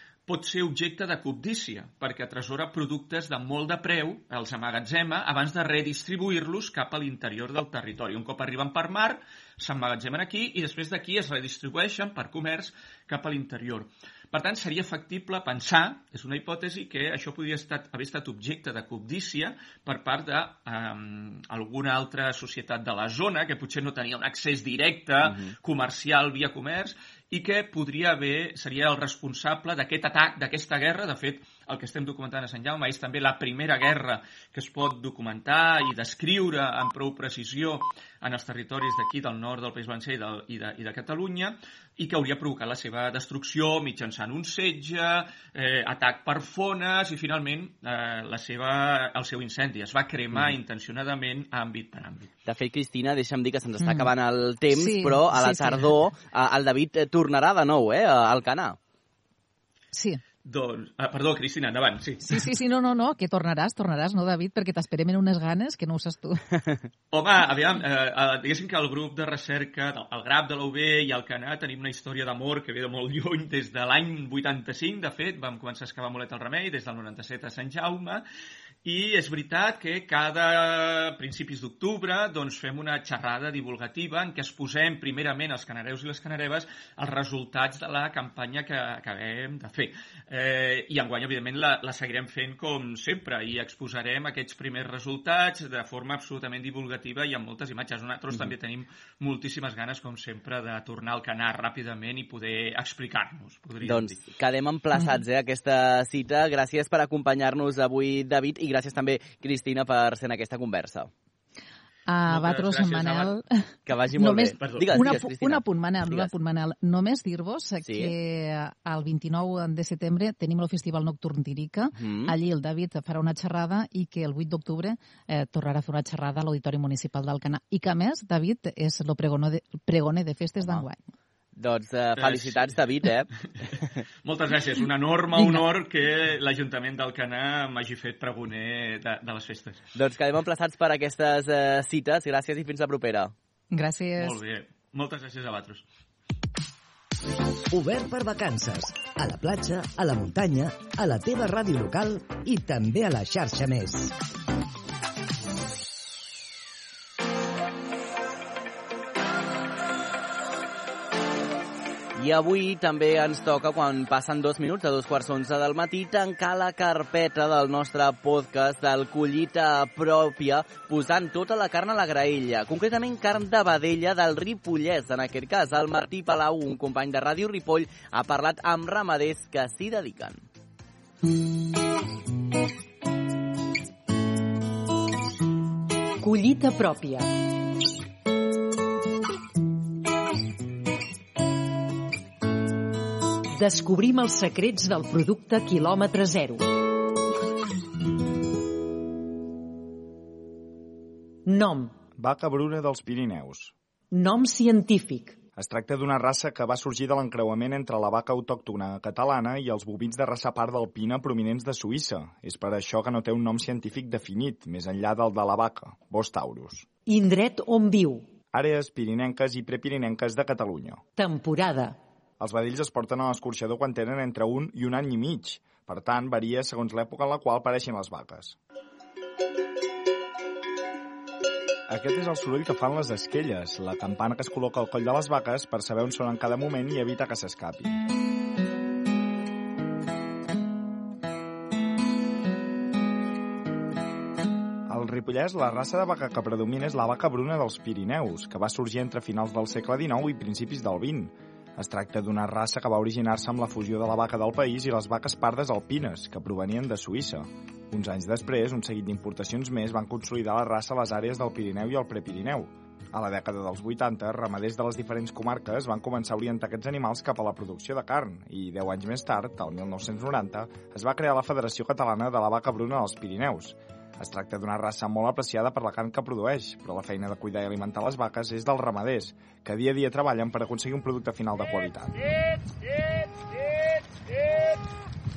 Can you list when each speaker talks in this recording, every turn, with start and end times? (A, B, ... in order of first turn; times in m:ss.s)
0:00.3-0:52.3 A
0:52.4-0:58.8 B
0:53.8-0:54.1 C
0:54.7-0:55.9 C
0:59.9-1:00.2 C
1:00.4-1:02.5 A
1:02.2-1:06.4 C
1:07.1-1:18.2 A
1:18.8-1:44.2 A
1:43.8-1:51.1 B
1:52.1-1:53.6 C
1:52.3-1:53.3 A
1:53.8-1:56.3 B
1:54.2-2:11.0 C
1:54.6-1:55.0 A
1:57.8-1:58.1 B
2:02.0-2:02.3 B
2:10.6-2:10.8 B
2:11.6-2:13.3 B
2:12.2-2:12.7 A
2:14.2-2:19.8 A
2:15.3-2:15.6 C
2:19.9-2:23.3 B
2:23.7-2:24.4 C
2:24.2-2:25.8 A
2:27.7-2:34.1 D
2:42.2-3:00.4 B
3:06.2-3:07.3 E
3:13.6-3:16.7 E
3:21.5-3:21.9 E
3:22.2-3:23.7 F
3:24.1-3:25.4 E
3:25.6-3:36.9 F
3:37.0-3:38.3 E
3:38.5-3:41.0 F
3:41.2-3:42.0 E
3:42.4-3:48.6 F
3:51.9-3:58.0 F
4:04.9-4:42.2 F